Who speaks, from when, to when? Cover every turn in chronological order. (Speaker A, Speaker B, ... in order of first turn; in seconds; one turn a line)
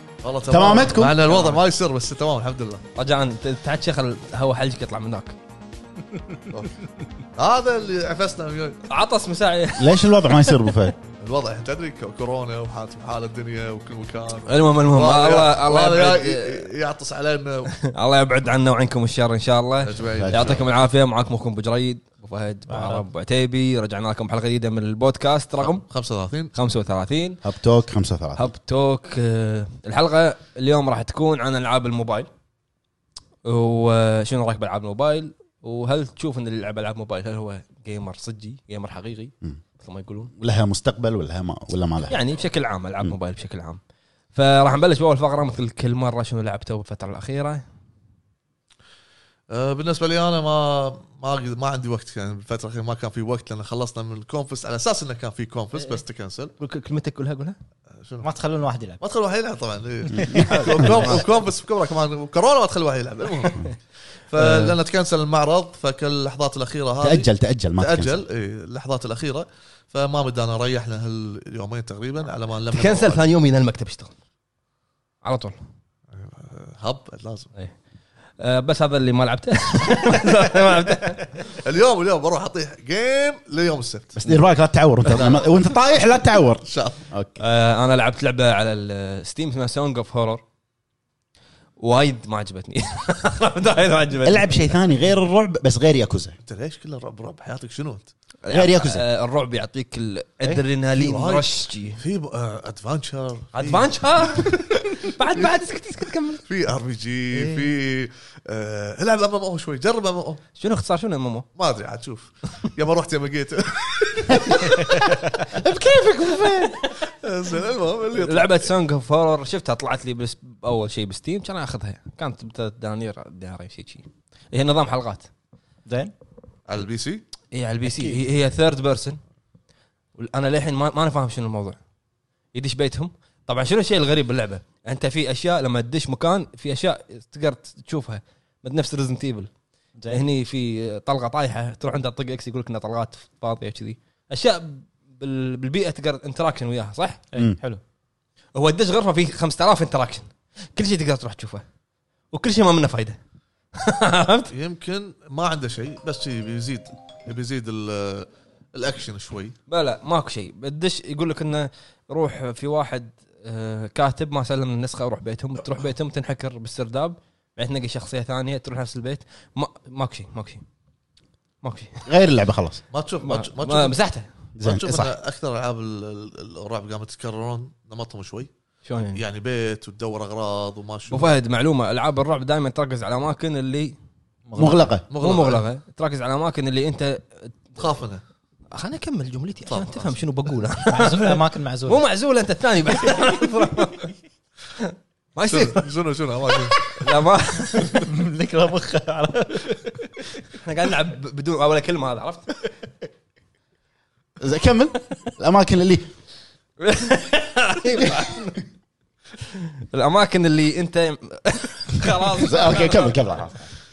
Speaker A: 0.2-2.8
Speaker B: 0.5-1.2
Speaker C: 1.2-1.6
Speaker C: 3.0-5.3
Speaker A: 7.3-8.8
Speaker C: 8.9-10.5
Speaker B: 9.8-10.9
Speaker A: 11.2-17.7
Speaker C: 14.5-16.6
Speaker C: 17.7-25.9
Speaker A: 19.8-20.6
Speaker B: 20.2-20.6
Speaker D: 22.7-23.0
Speaker A: 25.9-26.5
Speaker C: 26.5-27.4
Speaker B: 27.4-28.5
Speaker C: 28.3-32.3
Speaker C: 33.4-40.3
Speaker B: 40.4-42.2
Speaker C: 42.0-43.8
Speaker C: 44.3-47.6
Speaker A: 49.5-56.5
Speaker C: 56.6-57.5
Speaker A: 58.0-58.3
Speaker D: 58.2-59.0
Speaker A: 59.0-63.6
Speaker D: 60.1-61.1
Speaker B: 60.1-61.2
Speaker C: 60.7-61.2
Speaker A: 64.3-73.3
Speaker B: 67.0-68.2
Speaker C: 72.7-74.1
Speaker C: 75.2-75.6
Speaker A: 76.1-77.5
Speaker C: 78.4-81.6
Speaker A: 81.5-84.2
Speaker B: 84.1-87.4
Speaker A: 85.1-85.4
Speaker A: 86.6-87.0
Speaker C: 87.4-90.4
Speaker C: 91.8-94.8
Speaker B: 94.2-96.4
Speaker A: 96.4-98.1
Speaker C: 98.4-102.0
Speaker B: 98.5-99.0
Speaker A: 100.9-103.9
Speaker C: 103.5-106.4
Speaker A: 106.4-110.4
Speaker C: 107.3-107.7
Speaker C: 110.6-111.5
Speaker A: 111.6-115.1
Speaker C: 114.4-114.8
Speaker B: 115.6-116.7
Speaker C: 116.0-117.0
Speaker A: 117.0-118.7
Speaker C: 118.2-125.3
Speaker D: 125.9-126.1
Speaker A: 126.7-127.2
Speaker C: 127.5-129.2
Speaker D: 127.8-128.2
Speaker C: 130.1-131.8
Speaker C: 132.5-139.5
Speaker D: 140.0-140.2
Speaker C: 140.1-147.2
Speaker D: 147.3-147.8
Speaker C: 148.5-151.6
Speaker C: 152.3-153.2
Speaker C: 153.7-154.5
Speaker A: 154.5-159.5
Speaker C: 159.7-170.6
Speaker C: 171.6-172.1
Speaker B: 172.1-172.8
Speaker A: 172.9-174.0
Speaker C: 173.2-174.3
Speaker B: 174.6-175.1
Speaker A: 174.6-178.5
Speaker C: 178.8-179.2
Speaker A: 179.1-181.3
Speaker C: 181.1-183.9
Speaker D: 184.4-184.9
Speaker B: 184.6-185.0
Speaker A: 185.1-185.6
Speaker C: 185.2-187.8
Speaker A: 187.8-188.2
Speaker C: 188.7-194.1
Speaker A: 189.7-190.2
Speaker D: 190.9-192.0
Speaker C: 194.8-195.9
Speaker A: 195.5-197.1
Speaker C: 196.5-198.0
Speaker D: 197.8-200.2
Speaker C: 200.5-202.5
Speaker B: 204.4-206.1
Speaker C: 206.8-208.6
Speaker C: 209.4-213.1
Speaker B: 212.4-213.7